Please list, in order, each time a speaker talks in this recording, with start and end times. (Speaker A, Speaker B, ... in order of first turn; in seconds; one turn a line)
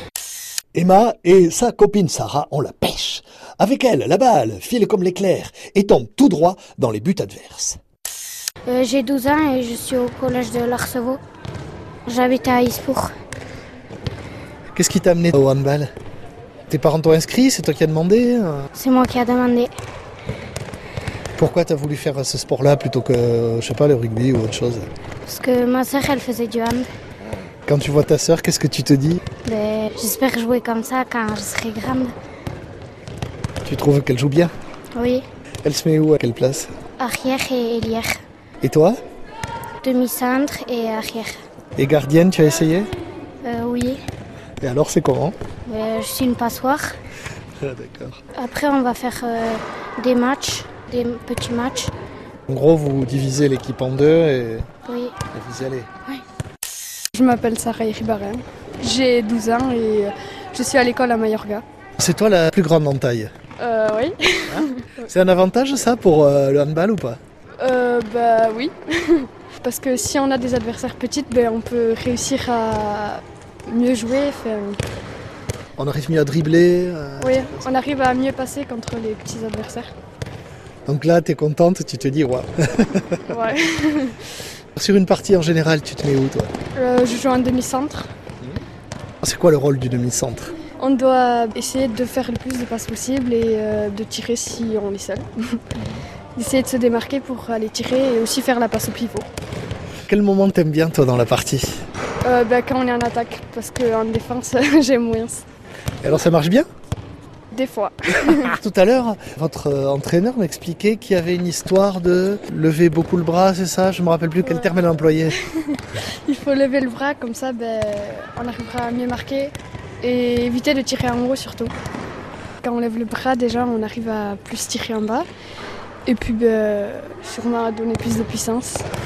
Speaker A: 0.7-7.8
Speaker B: 8.7-11.2
Speaker B: 12.1-13.1
Speaker A: 14.7-15.9
Speaker A: 16.7-18.7
Speaker B: 18.8-19.7
Speaker A: 21.4-24.9
Speaker B: 25.2-26.9
Speaker A: 27.7-29.2
Speaker B: 29.4-32.1
Speaker A: 33.6-34.5
Speaker B: 35.0-35.2
Speaker A: 35.6-36.7
Speaker B: 37.0-38.2
Speaker A: 38.6-39.0
Speaker B: 39.8-41.4
Speaker A: 41.8-42.9
Speaker B: 43.4-44.0
Speaker A: 44.6-45.4
Speaker B: 45.7-47.0
Speaker A: 47.6-48.2
Speaker B: 48.4-51.9
Speaker A: 52.5-54.7
Speaker B: 54.9-55.2
Speaker A: 55.3-55.9
Speaker C: 57.1-61.6
Speaker A: 62.0-63.3
Speaker C: 63.6-65.1
Speaker A: 64.5-67.2
Speaker C: 67.6-74.8
Speaker A: 75.8-77.7
Speaker C: 77.2-79.9
Speaker A: 80.9-83.3
Speaker C: 83.3-84.2
Speaker A: 84.8-86.5
Speaker C: 86.8-88.1
Speaker A: 89.2-90.5
Speaker C: 90.8-95.6
Speaker C: 96.4-99.3
Speaker A: 100.1-101.8
Speaker C: 102.2-105.5
Speaker A: 106.0-106.7
Speaker C: 107.5-108.6
Speaker A: 108.3-115.4
Speaker C: 114.5-114.7
Speaker C: 115.5-121.7
Speaker C: 122.6-125.3
Speaker C: 126.1-128.9